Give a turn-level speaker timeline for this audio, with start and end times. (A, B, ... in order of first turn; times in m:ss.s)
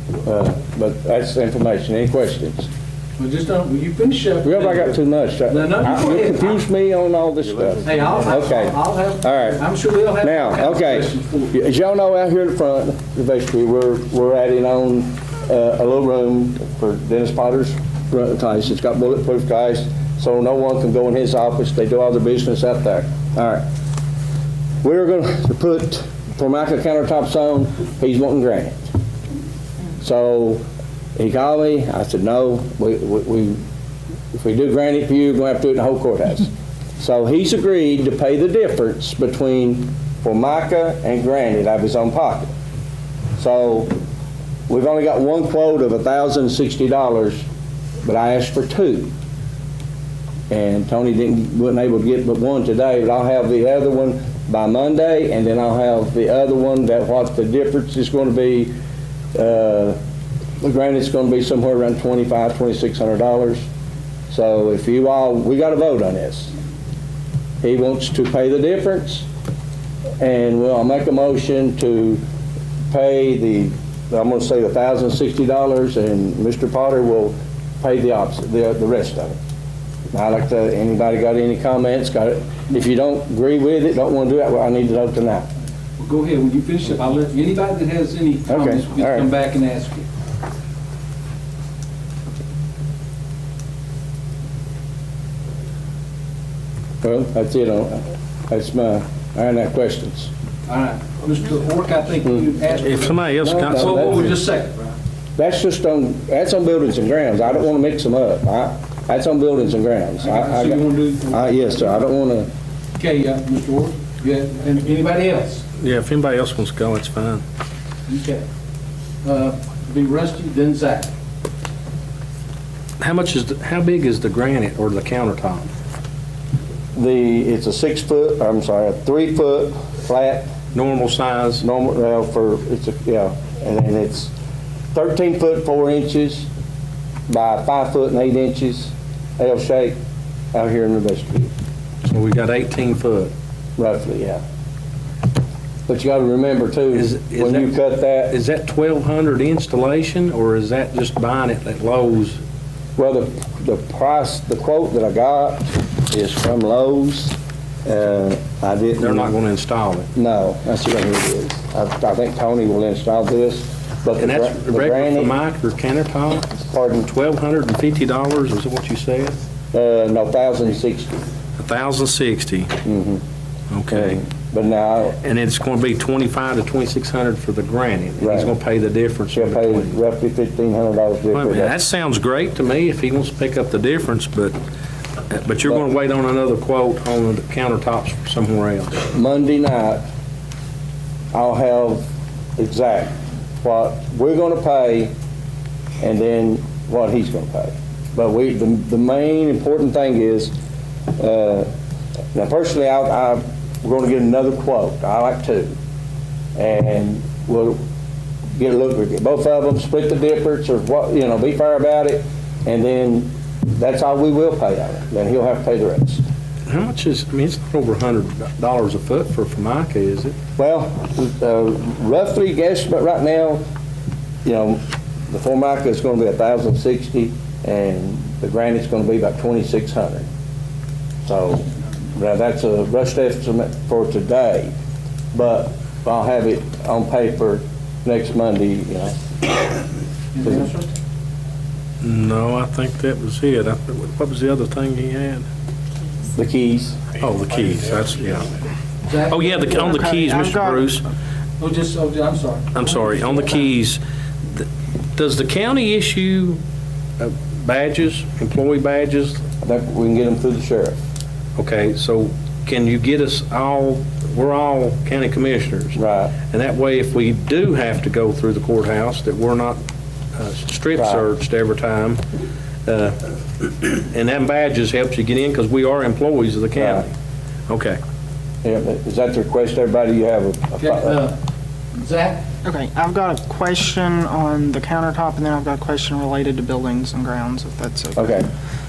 0:00.2-0:02.7 A
0:03.2-0:06.6 B
0:04.4-0:09.6 A
0:07.8-0:11.5 B
0:10.2-0:23.6 A
0:24.8-0:28.9 A
0:30.0-0:30.6 A
0:31.2-0:33.6 A
0:34.3-0:42.5 A
0:43.4-0:43.9 A
0:44.7-0:47.4 A
0:48.0-0:49.1 A
0:50.5-0:58.7 A
0:59.3-1:00.0 A
1:00.6-1:03.6 A
1:04.3-1:06.5 A
1:07.6-1:09.3 A
1:10.2-1:12.2 A
1:12.9-1:19.4 A
1:20.1-1:25.5 A
1:26.0-1:30.1 B
1:28.5-1:29.3 A
1:37.0-1:40.3 A
1:40.7-1:44.8 B
1:42.8-1:44.3 C
1:43.4-1:44.3 A
1:45.4-1:52.5 A
1:50.2-1:51.9 B
1:53.0-1:55.6 B
1:55.8-1:57.4 C
1:58.1-1:58.4 B
1:59.2-2:01.1 B
2:03.0-2:05.7 C
2:06.9-2:10.5 A
2:10.7-2:11.6 C
2:11.6-2:14.3 A
2:14.9-2:16.5 A
2:17.3-2:20.0 A
2:20.5-2:21.5 A
2:22.0-2:23.3 C
2:23.8-2:24.4 A
2:25.9-2:28.3 A
2:26.9-2:27.8 C
2:28.3-2:32.4 C
2:33.0-2:39.3 A
2:39.0-2:40.1 C
2:40.1-2:45.3 A
2:44.2-2:49.4 C
2:46.6-2:47.1 A
2:49.7-2:51.2 A
2:51.6-2:52.8 C
2:52.8-2:53.2 A
2:53.7-2:54.2 C
2:53.9-2:55.2 A
2:55.2-3:00.0 C
2:58.2-2:58.5 A
2:59.3-3:01.8 A
3:01.3-3:04.6 C
3:05.3-3:09.1 C
3:09.1-3:10.0 A
3:11.3-3:12.0 A
3:12.6-3:15.1 A
3:16.0-3:20.5 A
3:21.2-3:21.7 A
3:22.3-3:25.7 A
3:26.6-3:27.8 A
3:28.6-3:36.2 A
3:36.7-3:40.4 C
3:40.6-3:43.6 A
3:44.4-3:50.2 A
3:51.2-3:54.7 A
3:55.3-3:59.5 A
4:00.3-4:00.9 B
4:02.0-4:05.5 C
4:06.3-4:07.0 A
4:07.2-4:08.5 C
4:09.0-4:09.9 B
4:09.3-4:11.0 C
4:09.8-4:11.0 D
4:11.6-4:12.8 B
4:12.7-4:16.6 C
4:17.2-4:19.4 C
4:19.6-4:21.0 A
4:21.6-4:26.0 C
4:26.0-4:26.3 A
4:26.5-4:29.8 C
4:30.3-4:32.2 C
4:31.0-4:31.2 A
4:32.8-4:37.1 C
4:36.8-4:37.0 A
4:37.7-4:38.0 C
4:38.6-4:41.2 A
4:40.8-4:41.4 B
4:41.9-4:42.4 B
4:42.6-4:48.4 D
4:48.1-4:48.5 A